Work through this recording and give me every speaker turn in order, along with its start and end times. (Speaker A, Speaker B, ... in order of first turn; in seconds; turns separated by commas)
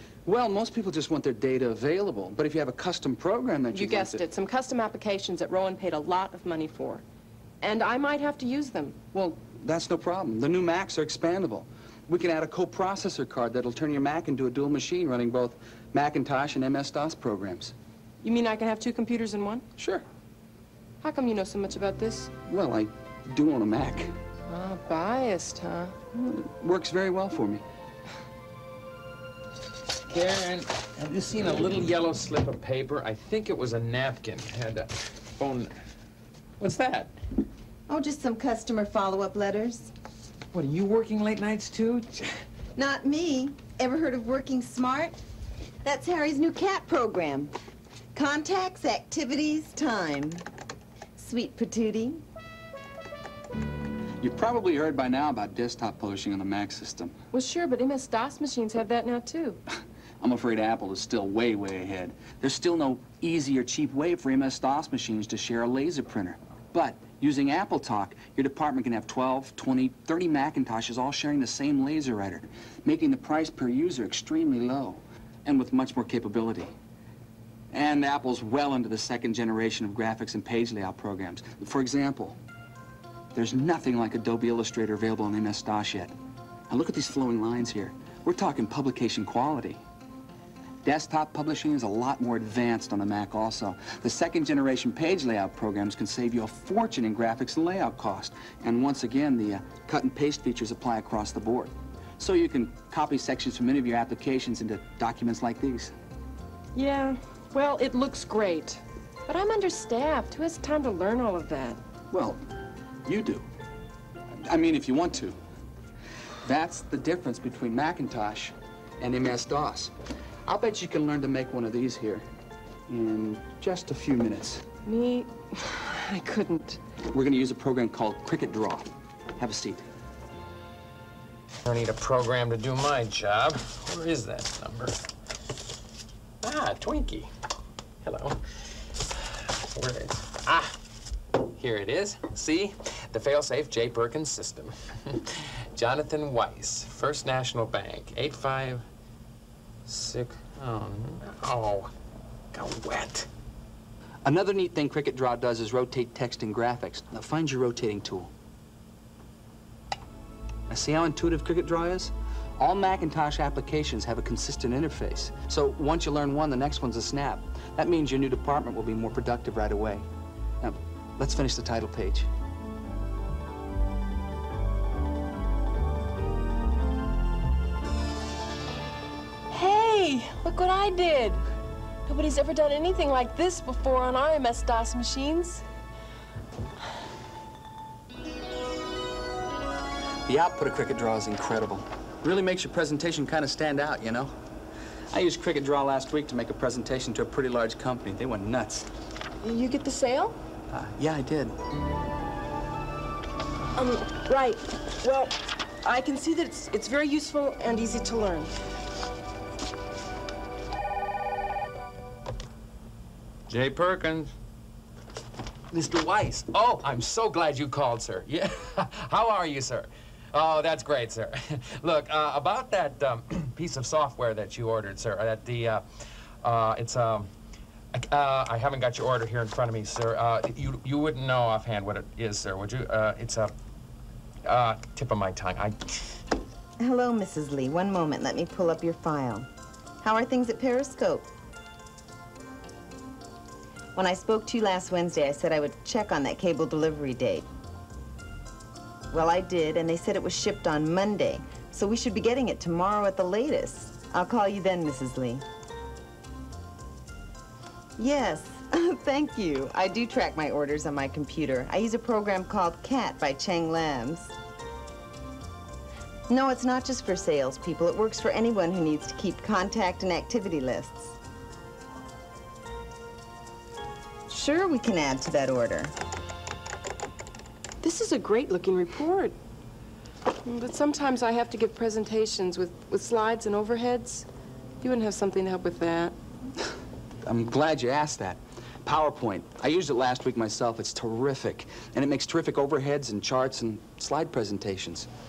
Speaker A: 0.2-4.2, Speaker B: 3.7-7.0, Speaker B: 7.6-8.9, Speaker A: 9.1-17.7, Speaker B: 18.2-19.6, Speaker A: 19.8-20.0, Speaker B: 21.0-22.3, Speaker A: 22.5-24.1, Speaker B: 24.5-25.9, Speaker A: 26.1-27.6, Speaker C: 30.1-35.7, Speaker C: 36.6-37.1, Speaker D: 37.9-39.9, Speaker C: 40.5-42.3, Speaker D: 42.8-45.1, Speaker D: 45.8-47.5, Speaker D: 48.1-50.4, Speaker D: 51.2-52.2, Speaker A: 54.2-57.1, Speaker B: 57.3-59.6, Speaker A: 60.2-76.7, Speaker A: 77.7-82.4, Speaker A: 83.3-86.1, Speaker A: 86.7-89.8, Speaker A: 90.8-105.9, Speaker B: 106.7-111.8, Speaker A: 112.1-112.4, Speaker A: 113.0-113.5, Speaker A: 114.3-115.4, Speaker A: 116.4-119.9, Speaker A: 120.5-122.2, Speaker A: 122.9-124.6, Speaker B: 124.8-126.8, Speaker A: 127.1-128.9, Speaker A: 129.4-129.8, Speaker C: 131.6-134.9, Speaker C: 136.4-137.3, Speaker C: 138.0-138.4, Speaker C: 139.7-140.7, Speaker C: 141.4-148.8, Speaker C: 149.9-151.9, Speaker C: 152.5-153.3, Speaker A: 154.2-158.3, Speaker A: 160.7-170.1, Speaker A: 170.6-172.3, Speaker B: 179.5-181.4, Speaker B: 182.1-185.6, Speaker A: 190.3-194.3, Speaker A: 195.1-198.9, Speaker B: 199.4-200.3, Speaker A: 200.7-201.5, Speaker B: 203.8-208.5, Speaker C: 213.5-214.3, Speaker A: 215.7-216.2, Speaker C: 216.2-225.8, Speaker C: 226.4-227.3, Speaker C: 227.9-233.5, Speaker C: 234.4-236.2, Speaker D: 236.8-239.5, Speaker D: 240.0-241.2, Speaker D: 243.9-247.5, Speaker D: 249.1-255.4, Speaker D: 258.0-264.3, Speaker D: 266.3-271.1, Speaker D: 274.3-275.9, Speaker B: 277.8-279.4, Speaker B: 280.4-284.3, Speaker B: 284.8-286.1, Speaker A: 287.2-295.1